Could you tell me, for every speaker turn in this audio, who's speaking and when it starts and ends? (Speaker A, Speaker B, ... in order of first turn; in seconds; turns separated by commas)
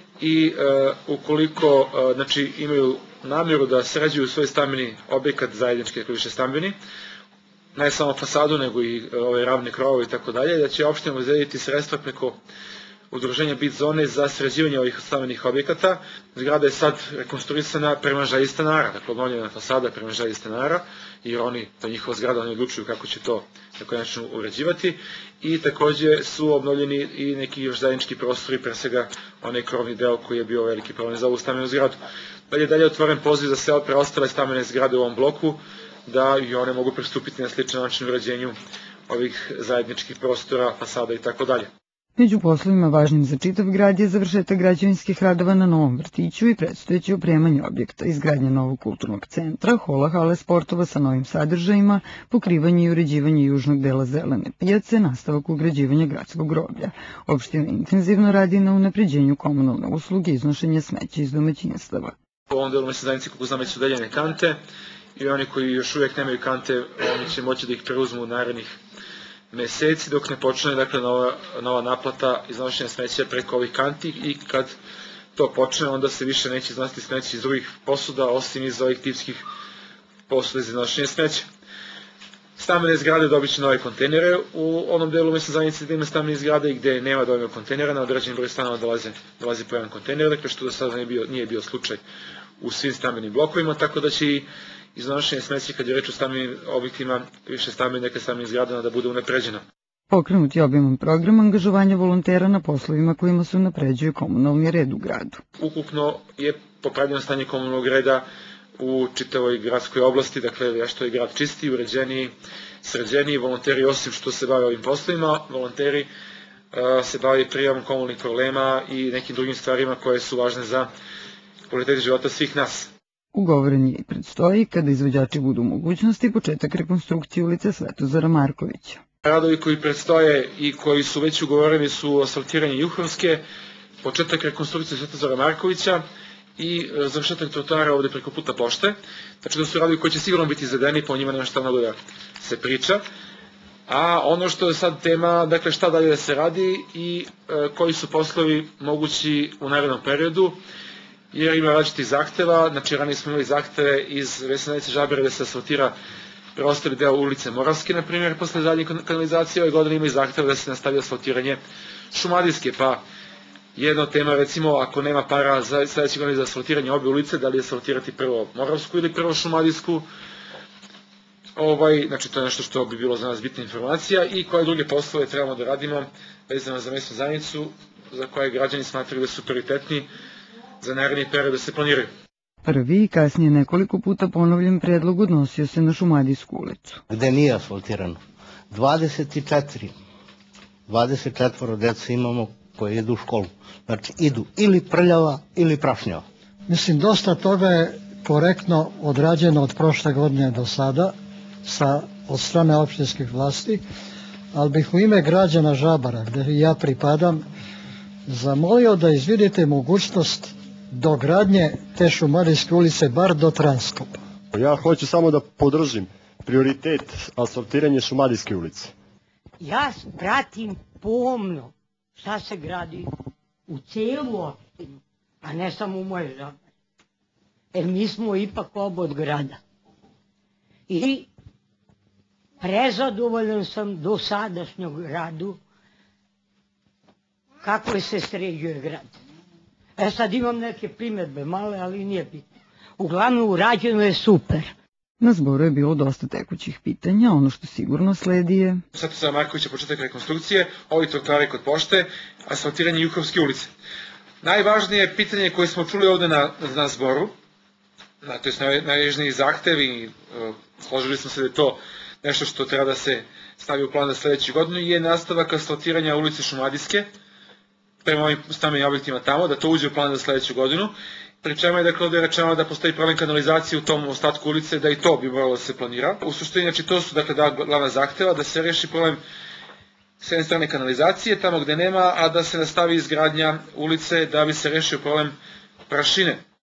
Speaker A: 0.2-6.7, Speaker A: 7.7-12.4, Speaker A: 13.1-31.9, Speaker A: 32.5-38.5, Speaker A: 39.1-41.7, Speaker B: 42.2-62.1, Speaker A: 62.5-64.6, Speaker A: 65.2-68.8, Speaker A: 69.5-74.7, Speaker A: 75.3-79.5, Speaker A: 80.3-81.5, Speaker A: 82.6-92.0, Speaker A: 92.6-99.6, Speaker B: 100.1-105.4, Speaker A: 105.6-108.2, Speaker A: 108.8-112.3, Speaker A: 112.8-116.1, Speaker A: 116.7-120.9, Speaker A: 121.7-122.9, Speaker B: 123.3-129.0, Speaker A: 129.2-133.4, Speaker A: 134.0-136.0, Speaker A: 136.6-143.0, Speaker A: 143.9-150.6, Speaker A: 151.3-155.9, Speaker A: 156.6-161.6, Speaker A: 162.1-163.0, Speaker A: 163.8-170.1, Speaker A: 171.6-180.1, Speaker A: 180.8-182.1, Speaker B: 182.6-187.0, Speaker C: 187.1-188.2, Speaker C: 188.7-189.9, Speaker C: 190.9-196.2, Speaker D: 196.7-203.8, Speaker D: 204.5-207.4, Speaker D: 208.3-214.2, Speaker E: 214.5-218.9, Speaker F: 219.6-223.1, Speaker F: 223.7-226.6, Speaker F: 227.7-229.6, Speaker F: 230.9-231.3, Speaker F: 232.6-235.6, Speaker F: 237.6-239.1, Speaker F: 240.0-244.7, Speaker B: 245.2-248.8, Speaker A: 248.9-253.7, Speaker A: 254.4-257.3, Speaker A: 258.2-267.1, Speaker A: 268.0-279.2, Speaker A: 280.2-285.3, Speaker A: 285.9-286.4